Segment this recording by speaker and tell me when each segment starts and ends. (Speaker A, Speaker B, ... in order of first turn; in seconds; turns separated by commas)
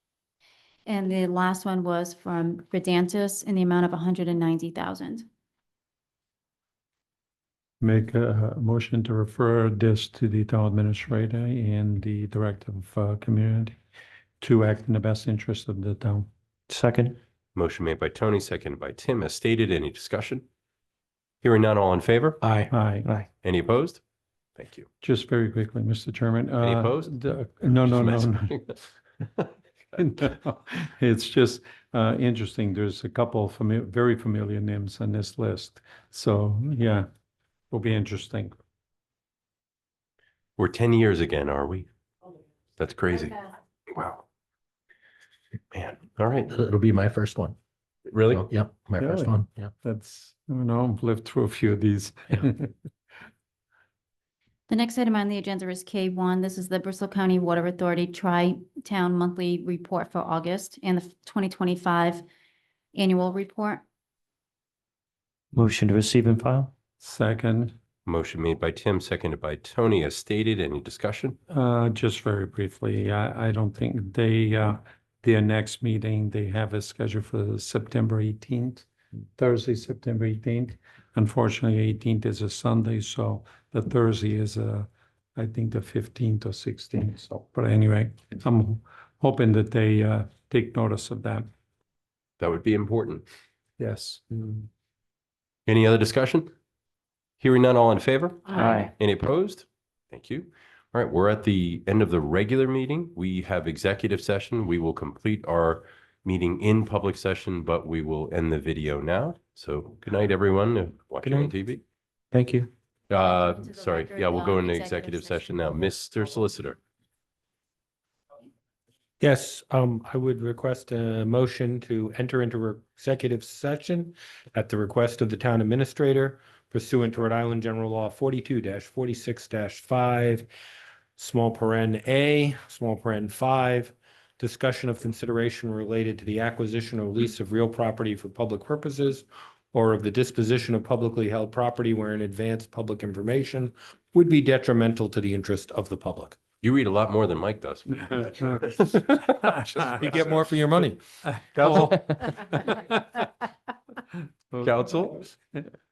Speaker A: 0.8-5.2, Speaker B: 7.8-13.7, Speaker B: 14.4-16.3, Speaker C: 16.7-17.2, Speaker D: 17.5-20.4, Speaker D: 21.4-22.5, Speaker C: 22.4-23.3, Speaker B: 22.7-23.1, Speaker D: 23.4-24.0, Speaker D: 24.6-24.9, Speaker B: 25.0-28.5, Speaker D: 26.6-27.1, Speaker D: 27.7-28.8, Speaker B: 29.9-37.0, Speaker B: 37.7-38.6, Speaker D: 40.6-41.9, Speaker D: 42.8-44.2, Speaker D: 45.7-46.5, Speaker E: 46.5-47.6, Speaker D: 48.1-48.5, Speaker E: 48.3-49.7, Speaker B: 49.0-52.7, Speaker A: 54.7-62.2, Speaker A: 62.9-63.8, Speaker C: 65.5-66.7, Speaker B: 67.0-67.8, Speaker D: 68.0-71.4, Speaker B: 71.5-91.5, Speaker D: 92.4-93.2, Speaker B: 93.8-94.7, Speaker D: 95.7-96.5, Speaker D: 97.4-111.8, Speaker C: 98.5-98.9, Speaker C: 111.2-111.5, Speaker C: 112.3-112.7, Speaker D: 113.1-116.8, Speaker A: 113.1-115.7, Speaker F: 119.2-130.5, Speaker F: 131.2-146.4, Speaker D: 146.6-149.2, Speaker B: 148.1-148.4, Speaker B: 149.3-150.0, Speaker F: 149.8-151.0, Speaker B: 151.2-153.2, Speaker F: 151.6-152.0, Speaker B: 154.5-155.7, Speaker D: 154.6-155.2